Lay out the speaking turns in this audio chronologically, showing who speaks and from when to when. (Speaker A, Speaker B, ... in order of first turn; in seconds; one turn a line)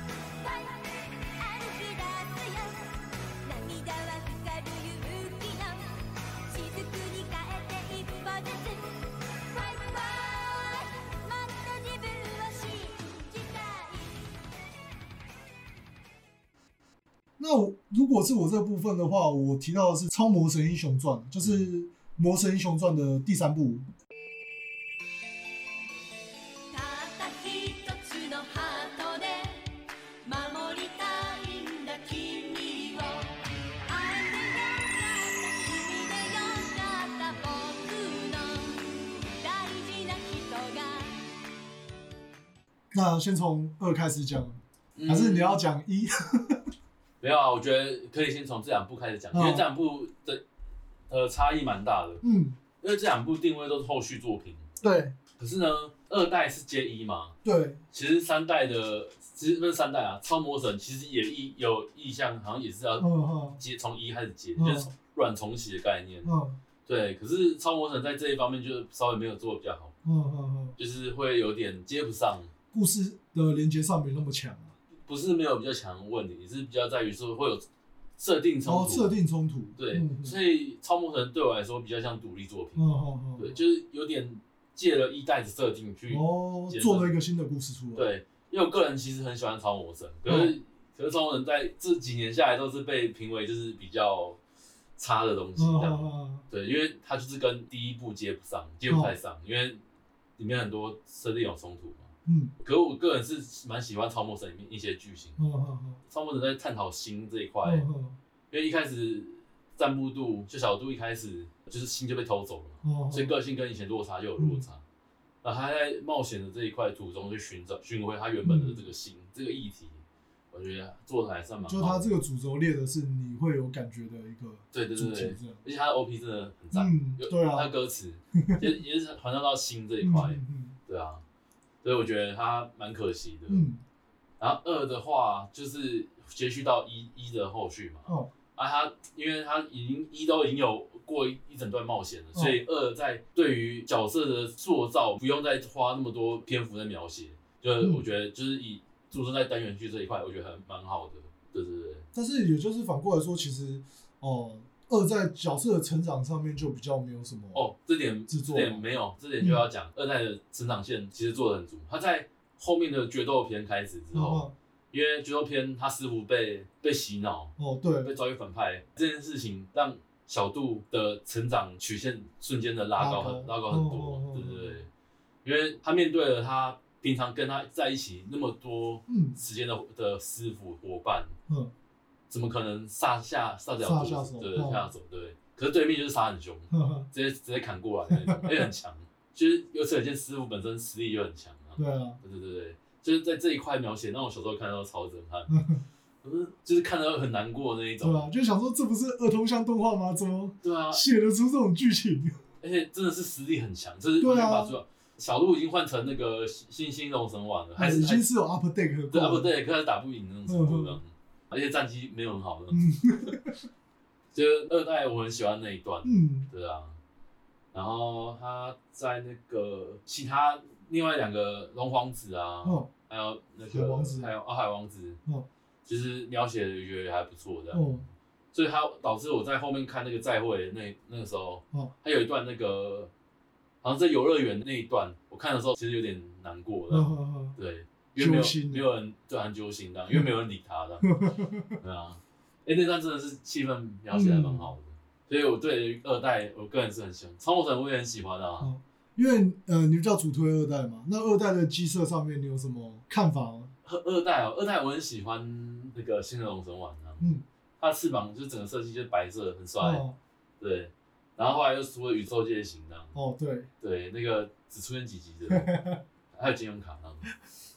Speaker A: 0.4-2.9
Speaker A: 3.4-14.3
Speaker B: 17.4-23.9
Speaker C: 21.4-21.7
Speaker A: 26.7-41.3
Speaker B: 42.9-46.6
Speaker C: 45.0-45.6
Speaker C: 47.2-50.4
Speaker B: 49.3-49.6
Speaker C: 51.1-52.2
Speaker B: 52.2-52.6
Speaker C: 52.8-54.7
Speaker B: 54.8-55.1
Speaker C: 55.4-57.4
Speaker B: 57.4-57.8
Speaker C: 57.9-66.3
Speaker B: 63.0-63.6
Speaker B: 64.6-64.9
Speaker B: 66.2-66.6
Speaker C: 66.8-69.9
Speaker B: 70.0-70.8
Speaker C: 70.8-72.5
Speaker B: 72.7-74.7
Speaker C: 75.0-77.6
Speaker C: 78.2-79.2
Speaker B: 78.6-80.4
Speaker C: 79.8-82.8
Speaker B: 82.8-83.6
Speaker C: 83.4-87.1
Speaker B: 86.1-88.0
Speaker C: 87.9-94.4
Speaker B: 90.3-90.5
Speaker C: 95.0-99.8
Speaker B: 95.6-96.4
Speaker B: 98.9-99.1
Speaker C: 100.4-105.4
Speaker B: 102.2-102.5
Speaker B: 105.4-106.0
Speaker C: 106.1-107.8
Speaker B: 107.6-108.2
Speaker C: 108.5-114.8
Speaker B: 112.8-113.3
Speaker B: 114.4-114.6
Speaker C: 115.4-122.2
Speaker B: 118.4-118.8
Speaker B: 121.7-125.6
Speaker C: 124.7-131.2
Speaker B: 126.7-127.7
Speaker B: 128.3-128.7
Speaker B: 130.0-130.8
Speaker C: 131.8-133.7
Speaker B: 133.5-133.8
Speaker C: 134.4-152.1
Speaker B: 152.1-157.6
Speaker C: 157.5-174.9
Speaker B: 158.3-158.8
Speaker B: 164.1-164.5
Speaker B: 167.6-168.1
Speaker B: 173.0-174.8
Speaker C: 175.4-181.3
Speaker B: 179.1-179.4
Speaker C: 182.3-195.6
Speaker B: 183.8-184.9
Speaker B: 186.7-187.1
Speaker B: 188.1-188.6
Speaker B: 191.8-192.2
Speaker B: 195.5-195.8
Speaker C: 196.2-198.3
Speaker B: 198.0-202.4
Speaker C: 200.6-201.0
Speaker C: 202.6-208.2
Speaker B: 204.2-204.8
Speaker B: 207.8-209.5
Speaker C: 209.1-213.3
Speaker B: 210.5-211.0
Speaker B: 212.7-213.5
Speaker C: 214.3-217.0
Speaker B: 216.0-216.5
Speaker C: 217.7-225.2
Speaker B: 222.6-222.9
Speaker B: 223.7-224.3
Speaker C: 225.8-233.1
Speaker B: 227.7-228.0
Speaker C: 233.8-241.2
Speaker B: 236.9-237.6
Speaker B: 238.2-238.8
Speaker B: 241.0-241.8
Speaker C: 241.8-248.7
Speaker B: 244.1-244.7
Speaker B: 248.6-253.7
Speaker C: 253.8-260.0
Speaker B: 259.8-260.1
Speaker C: 260.6-263.1
Speaker B: 263.1-263.7
Speaker C: 263.8-265.7
Speaker B: 265.5-266.0
Speaker C: 266.3-267.3